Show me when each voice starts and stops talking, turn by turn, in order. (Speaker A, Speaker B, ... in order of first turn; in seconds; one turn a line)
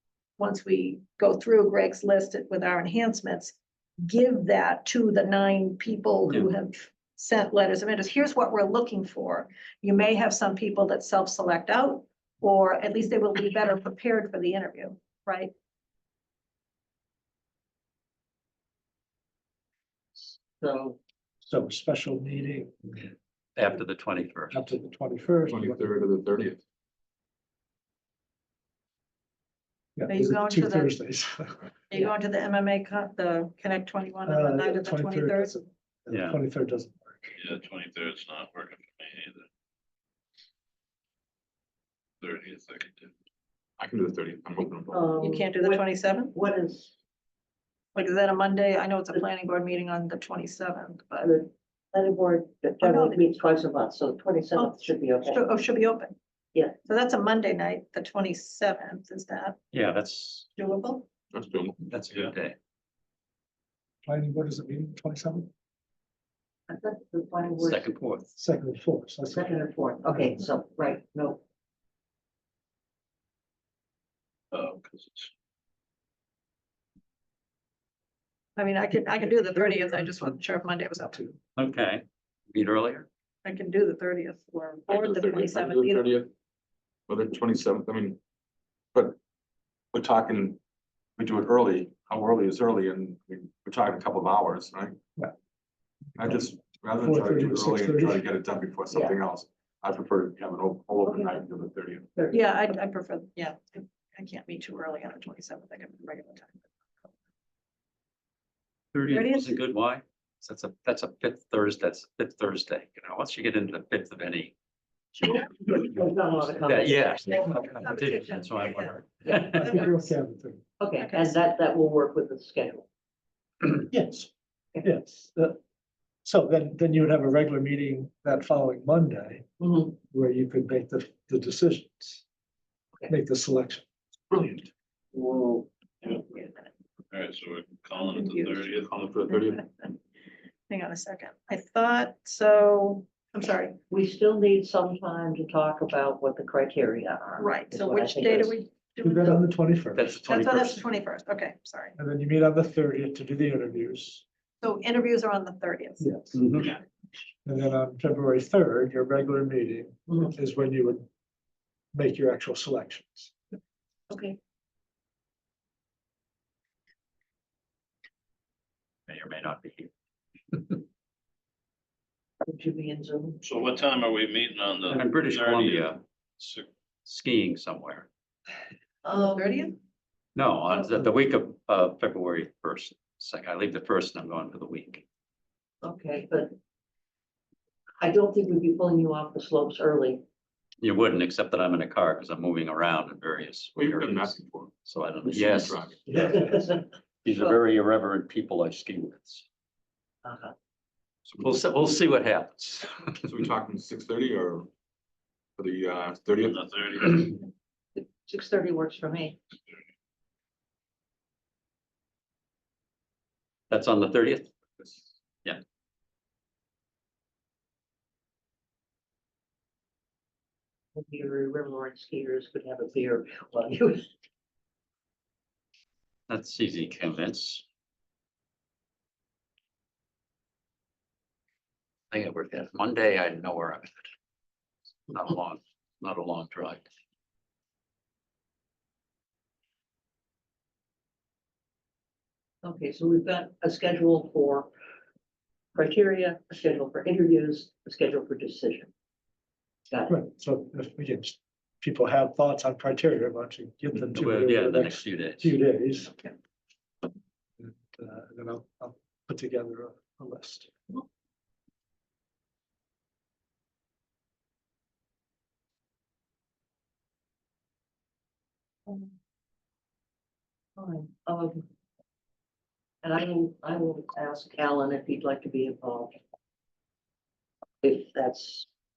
Speaker A: 0.4-15.5
Speaker B: 20.2-21.0
Speaker C: 21.4-23.1
Speaker D: 23.6-24.7
Speaker C: 24.5-25.9
Speaker E: 25.5-26.6
Speaker C: 29.9-31.6
Speaker A: 30.1-30.9
Speaker A: 31.9-35.6
Speaker C: 34.2-37.4
Speaker D: 36.1-36.4
Speaker F: 37.4-39.5
Speaker F: 42.2-43.1
Speaker E: 43.8-45.0
Speaker B: 44.9-46.9
Speaker A: 45.2-46.3
Speaker A: 47.9-51.3
Speaker B: 51.2-55.5
Speaker A: 52.8-53.3
Speaker A: 54.5-56.1
Speaker A: 56.8-59.6
Speaker D: 59.7-60.5
Speaker A: 60.5-61.1
Speaker E: 61.3-61.8
Speaker D: 61.8-62.5
Speaker C: 64.0-65.5
Speaker B: 66.7-67.9
Speaker D: 67.6-68.3
Speaker C: 68.3-69.6
Speaker B: 69.3-71.4
Speaker F: 74.5-75.3
Speaker A: 78.6-81.2
Speaker C: 79.2-80.4
Speaker C: 81.0-81.4
Speaker D: 81.6-83.1
Speaker A: 83.4-86.1
Speaker E: 84.9-86.3
Speaker E: 87.1-88.2
Speaker E: 89.9-90.6
Speaker E: 91.2-95.0
Speaker E: 96.2-102.1
Speaker C: 97.0-98.3
Speaker B: 98.9-99.2
Speaker B: 102.2-102.6
Speaker A: 102.3-106.6
Speaker D: 108.9-114.5
Speaker A: 109.1-109.6
Speaker B: 115.2-117.6
Speaker D: 116.7-119.7
Speaker A: 117.3-119.0
Speaker B: 119.2-119.9
Speaker C: 119.5-120.6
Speaker A: 119.6-120.0
Speaker B: 120.8-122.9
Speaker A: 121.0-121.3
Speaker C: 123.9-124.3
Speaker C: 124.8-125.6
Speaker C: 126.2-129.4
Speaker B: 129.6-129.9
Speaker C: 130.1-132.2
Speaker C: 133.1-133.8
Speaker E: 134.3-134.7
Speaker B: 135.1-136.4
Speaker F: 137.1-139.1
Speaker A: 137.9-140.0
Speaker E: 138.9-139.5
Speaker A: 140.7-143.8
Speaker B: 143.9-148.6
Speaker A: 147.4-149.4
Speaker C: 149.0-150.2
Speaker D: 149.9-150.8
Speaker A: 150.2-151.9
Speaker C: 152.0-154.2
Speaker A: 154.6-156.1
Speaker C: 156.0-156.6
Speaker D: 156.3-156.7
Speaker C: 157.4-161.1
Speaker C: 161.9-163.3
Speaker B: 164.1-164.4
Speaker D: 169.1-169.9
Speaker D: 170.5-170.8
Speaker B: 172.4-173.4
Speaker F: 173.4-176.7
Speaker D: 174.9-176.0
Speaker D: 177.1-178.1
Speaker B: 179.0-179.7
Speaker A: 179.1-179.8
Speaker D: 180.3-185.0
Speaker B: 185.8-186.5
Speaker B: 188.0-190.2
Speaker D: 190.8-196.3
Speaker E: 193.8-194.7
Speaker E: 195.3-195.9
Speaker C: 196.1-196.5
Speaker B: 196.1-197.6
Speaker D: 197.2-199.4
Speaker B: 200.2-200.5
Speaker D: 201.3-203.2
Speaker E: 203.2-204.7
Speaker E: 205.6-206.6
Speaker F: 206.4-207.4
Speaker B: 207.9-209.4
Speaker D: 213.7-214.5
Speaker B: 220.9-224.1
Speaker D: 226.3-227.6
Speaker D: 232.1-234.1
Speaker D: 235.1-236.9
Speaker B: 242.6-244.7
Speaker B: 245.7-248.9
Speaker B: 249.9-250.2
Speaker C: 250.1-256.2
Speaker D: 254.0-255.6
Speaker C: 257.6-260.7
Speaker B: 268.9-269.1
Speaker B: 270.8-271.6
Speaker B: 273.0-276.2
Speaker B: 277.8-278.7